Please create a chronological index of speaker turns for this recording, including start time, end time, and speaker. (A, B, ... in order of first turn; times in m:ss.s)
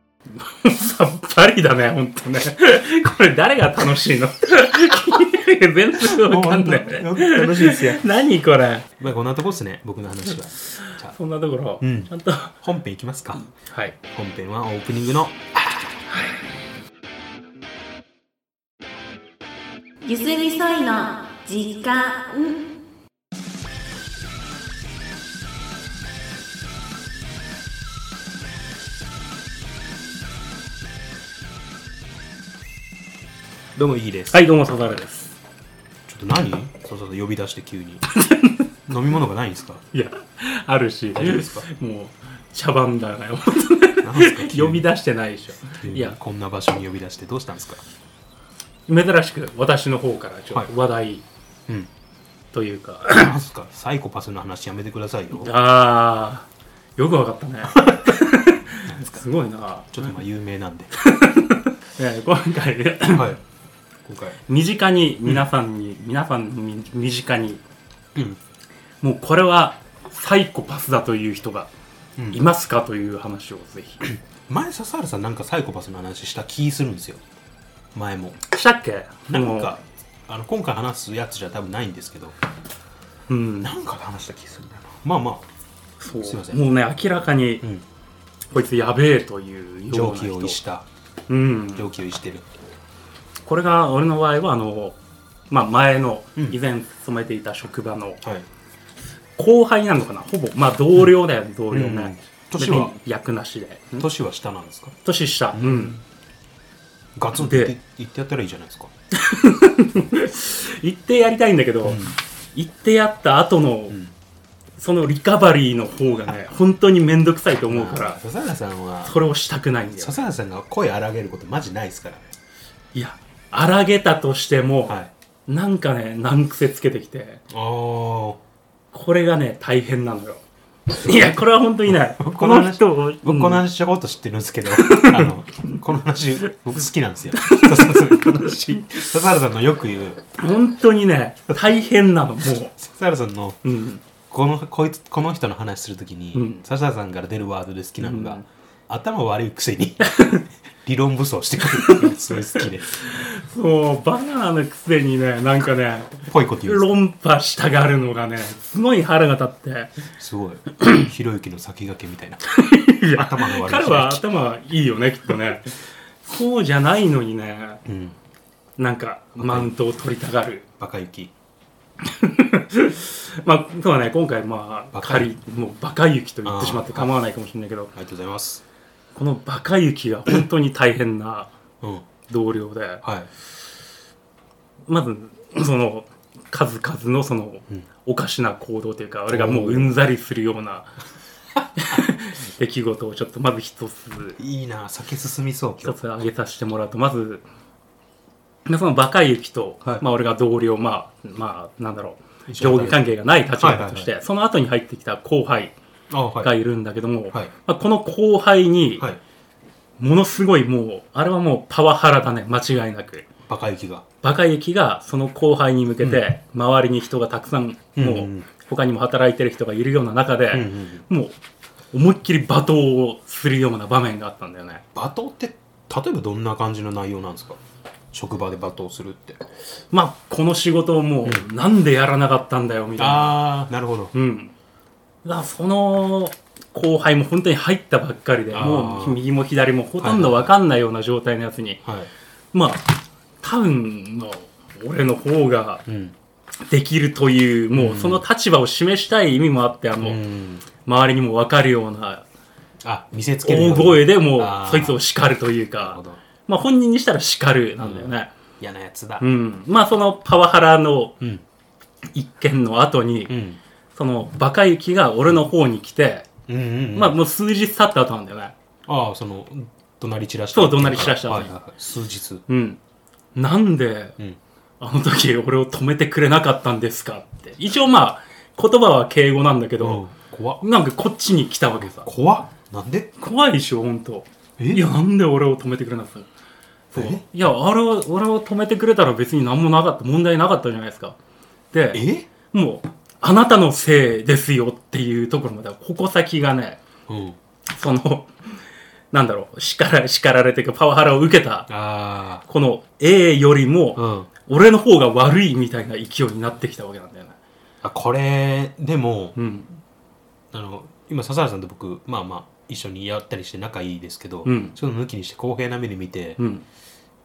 0:00.3-0:08.9 A
0:06.0-0:08.0 B
0:09.0-0:11.2 B
0:10.7-0:12.6 A
0:11.8-0:13.4 B
0:13.5-0:14.0 A
0:14.1-0:16.0 B
0:20.0-0:22.8 C
0:33.8-0:35.0 B
0:34.3-0:35.4 A
0:36.1-0:38.0 B
0:38.1-0:38.7 A
0:38.9-0:39.8 B
0:39.9-0:46.2 A
0:41.1-0:41.7 B
0:44.0-0:44.9 B
0:45.8-0:47.8 B
0:48.9-0:51.2 A
0:52.5-0:53.3 A
0:53.1-0:55.5 B
0:55.4-1:00.1 A
0:57.7-0:58.2 B
0:58.9-0:59.2 B
0:59.9-1:00.9 B
1:01.0-1:03.3 A
1:03.1-1:03.4 B
1:04.0-1:04.4 B
1:04.5-1:07.6 A
1:09.0-1:11.7 A
1:12.2-1:12.4 B
1:12.3-1:14.0 A
1:14.5-1:17.2 B
1:18.0-1:18.4 B
1:18.4-1:19.8 A
1:19.3-1:22.4 B
1:23.3-1:23.7 A
1:23.6-1:25.5 B
1:26.0-1:27.7 A
1:26.2-1:26.6 B
1:28.5-1:30.6 A
1:29.9-1:30.8 B
1:31.3-1:31.9 A
1:31.7-1:32.5 B
1:33.5-1:35.0 A
1:35.5-1:38.2 A
1:39.4-1:44.1 A
1:41.7-1:43.0 B
1:44.0-1:45.0 B
1:45.0-1:46.0 A
1:45.5-1:46.0 B
1:47.2-1:48.9 B
1:47.4-1:47.8 A
1:49.1-1:54.0 A
1:51.8-1:52.2 B
1:54.8-1:58.2 A
1:57.7-1:59.1 B
1:59.0-2:00.3 A
2:00.0-2:02.3 B
2:02.9-2:07.4 A
2:04.9-2:05.1 B
2:07.5-2:08.4 B
2:08.9-2:13.6 A
2:11.1-2:11.3 B
2:11.9-2:20.3 B
2:14.8-2:15.3 A
2:17.4-2:18.4 A
2:20.4-2:22.8 A
2:22.8-2:23.6 B
2:23.6-2:24.0 A
2:24.3-2:30.2 B
2:26.3-2:26.6 A
2:28.0-2:28.4 A
2:30.1-2:30.4 A
2:30.8-2:33.0 B
2:31.7-2:39.9 A
2:36.2-2:37.0 B
2:40.2-2:42.5 B
2:42.5-2:45.7 A
2:43.1-2:44.2 B
2:46.2-2:47.8 A
2:47.8-2:48.2 B
2:48.8-2:50.7 A
2:49.4-2:49.7 B
2:50.8-2:51.3 B
2:52.0-2:57.9 A
2:54.9-2:55.3 B
2:56.4-2:57.1 B
2:57.9-2:58.6 B
2:59.2-3:01.5 A
3:01.8-3:02.1 B
3:02.3-3:03.0 A
3:03.0-3:03.3 B
3:04.9-3:10.9 A
3:09.3-3:10.0 B
3:11.6-3:12.0 B
3:11.8-3:14.4 A
3:14.4-3:16.0 B
3:15.8-3:17.4 A
3:18.7-3:25.7 A
3:22.5-3:24.1 B
3:26.1-3:26.6 B
3:26.4-3:29.1 A
3:30.0-3:33.3 A
3:33.5-3:34.0 B
3:34.2-3:41.4 A
3:38.0-3:38.5 B
3:40.5-3:41.1 B
3:41.9-3:44.8 A
3:44.9-3:47.6 B
3:48.1-3:49.4 B
3:49.9-3:53.4 A
3:53.0-3:54.1 B
3:54.1-3:54.5 A
3:55.2-4:01.8 A
3:58.5-3:59.2 B
4:00.0-4:00.5 B
4:01.8-4:02.1 B
4:02.5-4:05.8 A
4:05.9-4:06.2 B
4:06.7-4:10.2 A
4:07.7-4:08.2 B
4:10.0-4:10.7 B
4:10.8-4:12.2 A
4:12.8-4:15.0 B
4:13.4-4:18.3 A
4:15.8-4:16.2 B
4:17.8-4:19.3 B
4:19.2-4:21.2 A
4:22.1-4:23.4 A
4:23.3-4:23.6 B
4:24.0-4:26.3 A
4:26.5-4:27.2 B
4:26.9-4:28.5 A
4:28.9-4:32.4 B
4:30.5-4:31.5 A
4:32.5-4:32.8 A
4:33.4-4:34.2 A
4:34.8-4:40.0 A
4:39.8-4:40.6 B
4:40.6-4:42.1 A
4:41.8-4:43.1 B
4:43.2-4:46.3 A
4:44.6-4:44.9 B
4:46.9-4:51.2 A
4:46.9-4:47.2 B
4:51.7-4:56.8 A
4:51.9-4:52.3 B
4:57.1-4:57.4 B
4:57.7-4:58.3 A
4:59.1-5:01.7 A
5:01.7-5:02.4 B
5:02.4-5:07.4 A
5:04.0-5:04.3 B
5:07.8-5:09.4 B
5:09.4-5:09.7 A
5:10.5-5:16.4 B
5:14.4-5:14.8 A
5:16.4-5:16.6 A